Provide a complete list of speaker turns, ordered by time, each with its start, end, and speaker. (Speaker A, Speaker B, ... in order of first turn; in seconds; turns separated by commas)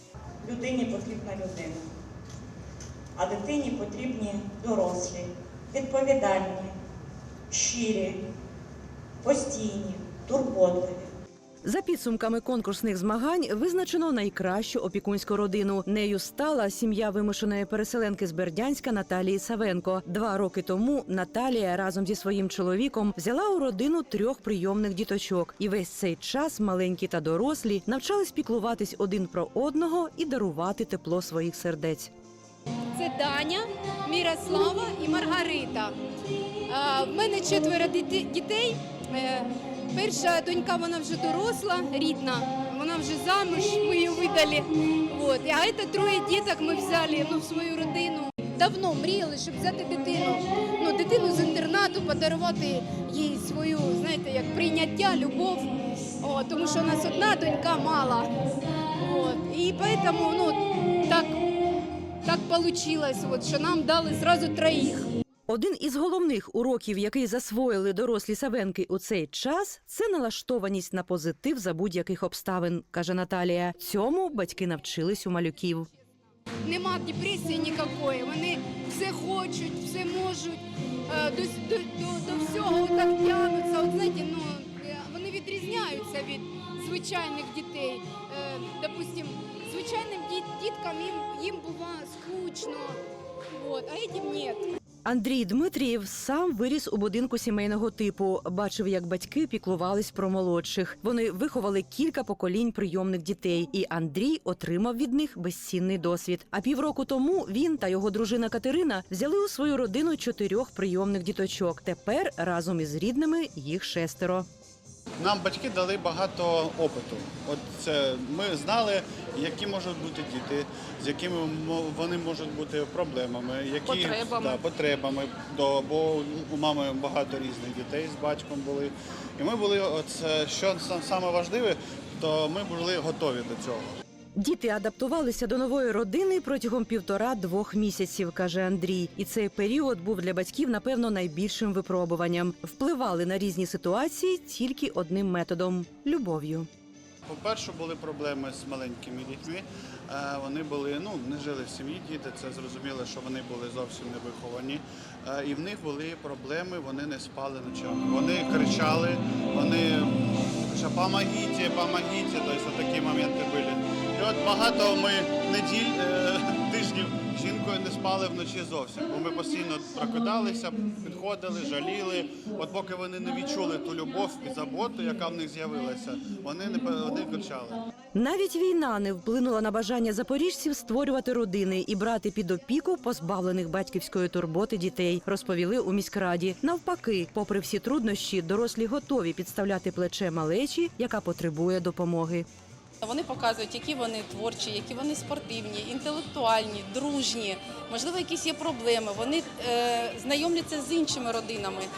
Speaker A: 0.4-1.9, Speaker A: 3.2-6.7, Speaker A: 7.5-8.2, Speaker A: 9.2-11.1, Speaker B: 11.6-32.1, Speaker C: 32.9-35.9, Speaker C: 36.7-58.3, Speaker C: 59.0-61.5, Speaker C: 62.2-65.1, Speaker B: 65.5-75.9, Speaker C: 76.6-93.0, Speaker C: 93.5-94.7, Speaker B: 95.0-114.5, Speaker D: 115.2-134.0, Speaker E: 123.9-124.6, Speaker B: 134.4-146.7, Speaker D: 147.3-177.9, Speaker B: 178.2-192.5, Speaker E: 193.0-201.9